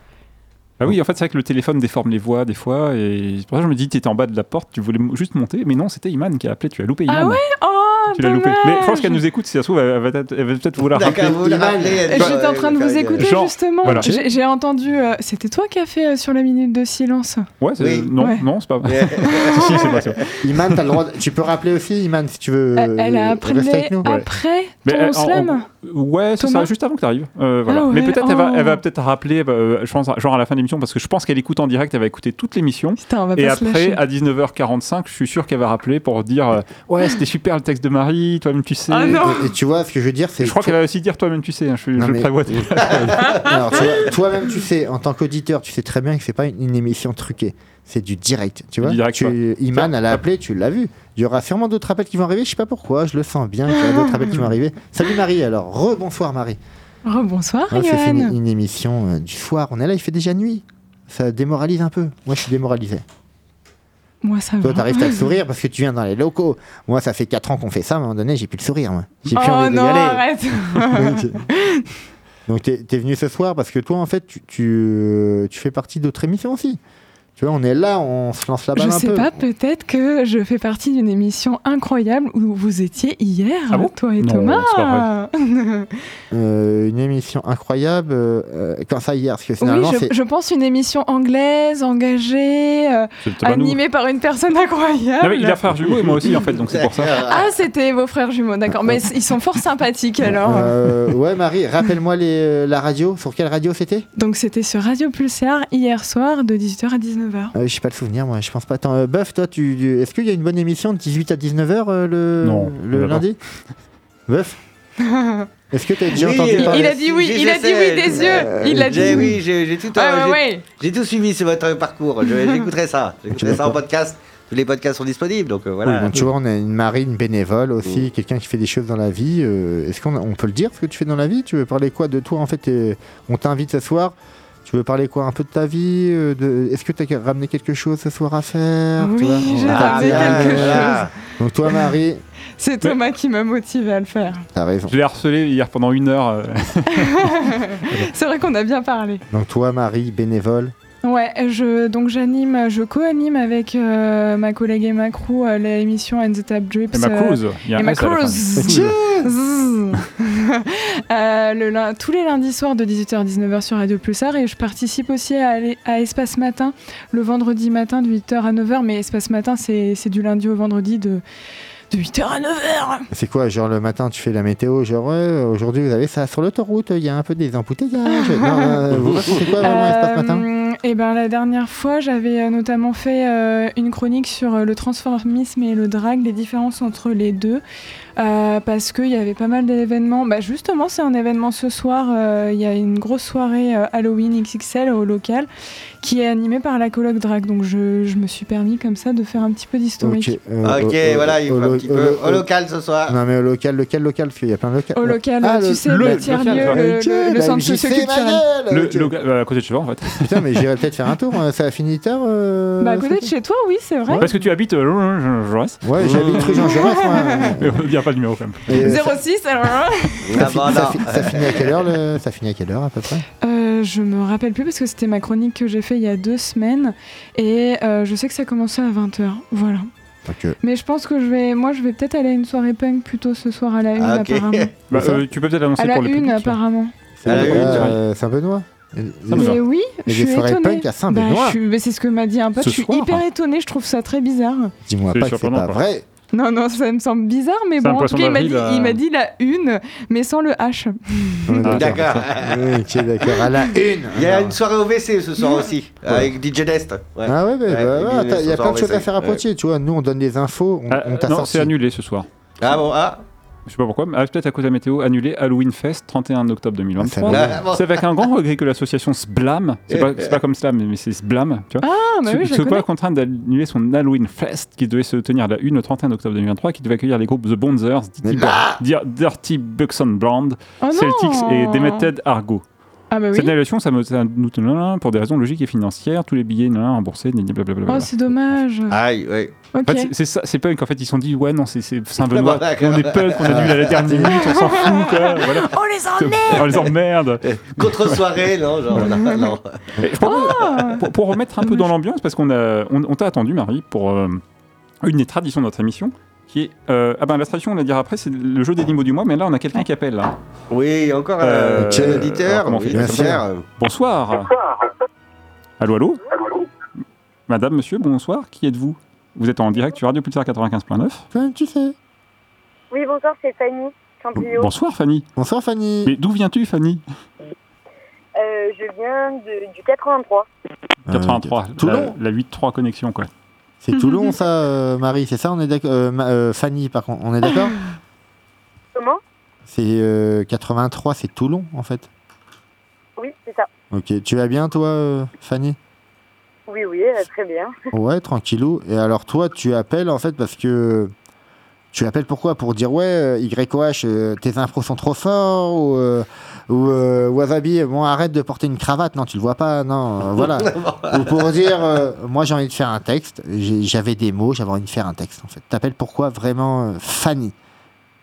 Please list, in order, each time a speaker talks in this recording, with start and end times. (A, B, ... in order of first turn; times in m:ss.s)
0:00.8-0:07.4 A
0:07.1-0:09.2 B
0:08.1-0:11.5 A
0:11.0-0:13.3 C
0:11.0-0:12.3 D
0:12.1-0:17.5 B
0:13.2-0:14.2 A
0:17.6-0:20.2 A
0:17.8-0:18.1 C
0:18.2-0:18.4 B
0:18.9-0:20.1 C
0:19.2-0:19.9 B
0:20.4-0:24.0 D
0:22.8-0:25.7 B
0:24.8-0:39.3 A
0:26.4-0:26.7 B
0:27.7-0:28.8 B
0:33.0-0:34.0 B
0:38.9-0:39.5 B
0:39.2-0:40.8 D
0:40.4-0:43.4 A
0:42.0-0:56.6 D
0:48.8-0:50.2 A
0:53.7-0:54.2 B
0:57.0-0:58.4 B
0:57.7-1:03.0 D
1:04.2-1:05.3 B
1:04.6-1:10.1 D
1:09.3-1:11.9 B
1:09.5-1:09.8 C
1:10.8-1:11.4 D
1:12.5-1:16.8 D
1:17.4-1:19.4 D
1:18.8-1:25.9 B
1:23.7-1:25.1 A
1:26.3-1:30.1 D
1:29.6-1:36.3 B
1:33.2-1:33.8 A
1:35.2-1:37.2 A
1:36.7-1:37.5 C
1:37.2-1:40.8 B
1:38.8-1:39.0 D
1:40.2-1:44.1 D
1:44.2-1:47.5 B
1:47.6-1:53.4 D
1:52.4-1:53.2 A
1:54.3-1:54.6 D
1:55.0-1:55.5 B
1:55.7-1:57.0 D
1:56.1-2:06.2 C
1:56.5-2:00.6 B
1:58.1-1:59.4 D
2:02.2-2:02.7 B
2:03.3-2:03.8 D
2:05.8-2:22.2 D
2:19.0-2:21.1 B
2:19.6-2:21.1 C
2:22.6-2:24.5 B
2:24.5-2:24.9 D
2:24.9-2:28.1 A
2:26.9-2:29.2 B
2:29.3-2:30.7 D
2:31.0-2:51.2 B
2:36.9-2:39.0 A
2:38.6-2:39.2 D
2:51.9-2:53.1 B
2:53.1-3:00.4 D
2:58.1-2:58.8 B
2:59.6-3:07.6 B
3:08.2-3:15.5 B
3:16.0-3:20.4 B
3:20.0-3:22.5 D
3:20.6-3:23.2 C
3:23.1-3:29.1 D
3:25.0-3:28.4 B
3:25.8-3:26.9 A
3:28.7-3:30.6 A
3:30.2-3:33.3 D
3:32.8-3:34.3 B
3:34.2-3:39.0 A
3:35.8-3:37.8 D
3:36.0-3:36.4 C
3:36.7-3:37.6 B
3:38.7-3:39.2 D
3:38.8-3:40.4 B
3:40.3-3:41.7 C
3:40.3-3:43.2 D
3:43.4-3:49.9 B
3:50.3-3:50.6 D
3:50.6-3:54.8 B
3:54.0-3:54.7 C
3:54.9-3:56.6 A
3:54.9-3:55.2 D
3:55.8-3:56.9 B
3:57.2-4:01.6 D
3:57.2-3:58.0 A
3:57.3-3:57.9 C
3:59.3-3:59.6 A
3:59.3-4:04.7 B
4:02.6-4:03.2 A
4:04.9-4:06.1 D
4:05.1-4:05.8 A
4:06.3-4:11.7 B
4:07.8-4:09.0 A
4:11.5-4:14.6 D
4:11.6-4:12.3 A
4:11.8-4:12.7 C
4:13.3-4:13.7 B
4:14.1-4:19.4 C
4:17.2-4:21.7 D
4:20.9-4:22.3 A
4:22.6-4:23.2 C
4:23.7-4:42.6 A
4:27.0-4:27.6 D
4:27.3-4:28.0 C
4:29.9-4:30.4 C
4:31.8-4:32.9 B
4:38.2-4:38.8 D
4:40.8-4:42.1 B
4:43.1-4:43.5 B
4:43.3-4:48.6 A
4:47.9-4:49.0 B
4:48.9-4:49.5 C
4:49.7-4:50.1 B
4:49.8-4:58.2 A
4:52.2-4:53.9 C
4:53.5-4:54.4 D
4:54.2-4:56.8 B
4:57.5-4:59.8 C
4:59.1-4:59.5 B
5:00.0-5:04.4 A
5:00.2-5:01.1 B
5:01.6-5:01.9 B
5:05.0-5:10.4 A
5:10.7-5:13.6 C
5:11.4-5:14.5 A
5:11.8-5:12.3 D
5:12.9-5:13.4 D
5:15.8-5:16.2 A
5:17.5-5:21.2 A
5:21.3-5:22.0 D
5:22.9-5:24.7 E
5:24.4-5:25.3 A
5:25.4-5:26.1 D
5:26.0-5:27.0 A
5:28.4-5:30.5 E
5:31.1-5:32.2 D
5:31.1-5:33.3 A
5:33.8-5:37.7 D
5:34.0-5:34.3 B
5:39.0-5:39.2 E
5:39.7-5:42.1 D
5:43.2-5:43.7 E
5:43.9-5:45.8 D
5:46.7-5:47.8 E
5:47.9-5:51.1 D
5:51.9-6:07.6 D
6:00.4-6:01.7 C